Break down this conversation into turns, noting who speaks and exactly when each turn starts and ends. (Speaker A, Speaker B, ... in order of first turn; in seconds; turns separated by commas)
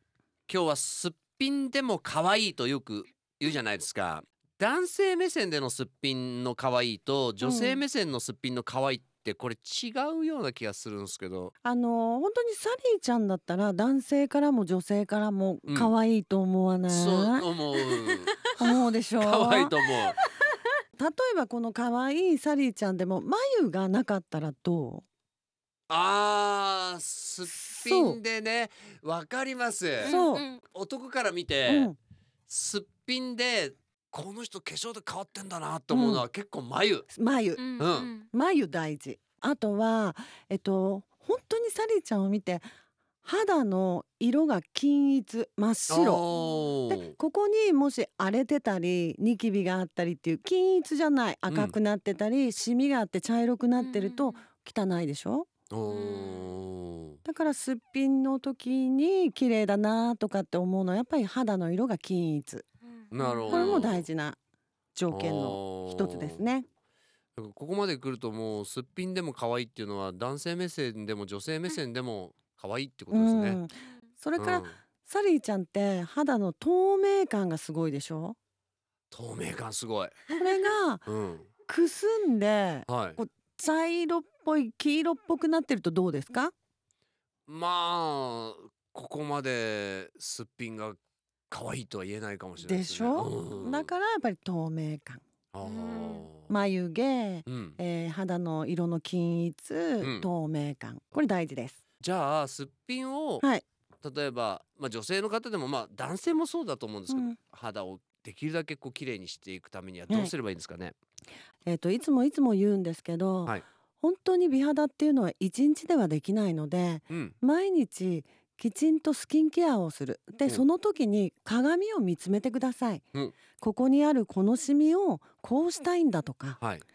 Speaker A: 0.5-11.5, Speaker B: 7.4-7.8, Speaker B: 11.6-17.4, Speaker A: 15.7-15.9, Speaker A: 16.9-18.4, Speaker B: 18.4-19.7, Speaker A: 19.2-20.2, Speaker B: 20.9-25.0, Speaker A: 25.9-30.1, Speaker B: 27.5-28.2, Speaker C: 30.0-30.6, Speaker B: 30.1-30.4, Speaker A: 30.7-31.9, Speaker B: 31.6-31.9, Speaker A: 32.5-37.0, Speaker B: 35.9-36.2, Speaker B: 37.1-37.7, Speaker C: 37.5-38.3, Speaker A: 37.8-38.1, Speaker B: 38.3-42.6, Speaker B: 43.2-46.2, Speaker A: 45.9-47.1, Speaker C: 46.3-46.7, Speaker B: 46.9-55.5, Speaker A: 51.5-51.7, Speaker C: 53.8-54.4, Speaker A: 55.7-57.2, Speaker C: 55.9-56.5, Speaker B: 57.2-62.6, Speaker C: 62.9-63.9, Speaker A: 63.1-64.1, Speaker B: 63.5-64.4, Speaker B: 64.9-66.7, Speaker A: 65.1-66.4, Speaker A: 67.4-73.6, Speaker B: 73.1-78.3, Speaker A: 74.3-74.8, Speaker A: 79.1-80.2, Speaker B: 80.3-81.0, Speaker A: 81.0-81.5, Speaker B: 81.7-86.5, Speaker A: 82.9-83.2, Speaker A: 87.5-91.0, Speaker A: 91.5-93.9, Speaker B: 92.6-95.2, Speaker A: 95.5-96.5, Speaker C: 95.6-96.2, Speaker B: 96.5-101.8, Speaker A: 97.5-97.8, Speaker A: 100.0-100.3, Speaker A: 102.0-103.4, Speaker A: 104.0-110.9, Speaker B: 107.1-107.4, Speaker B: 111.7-123.0, Speaker B: 123.6-126.6, Speaker A: 126.6-126.8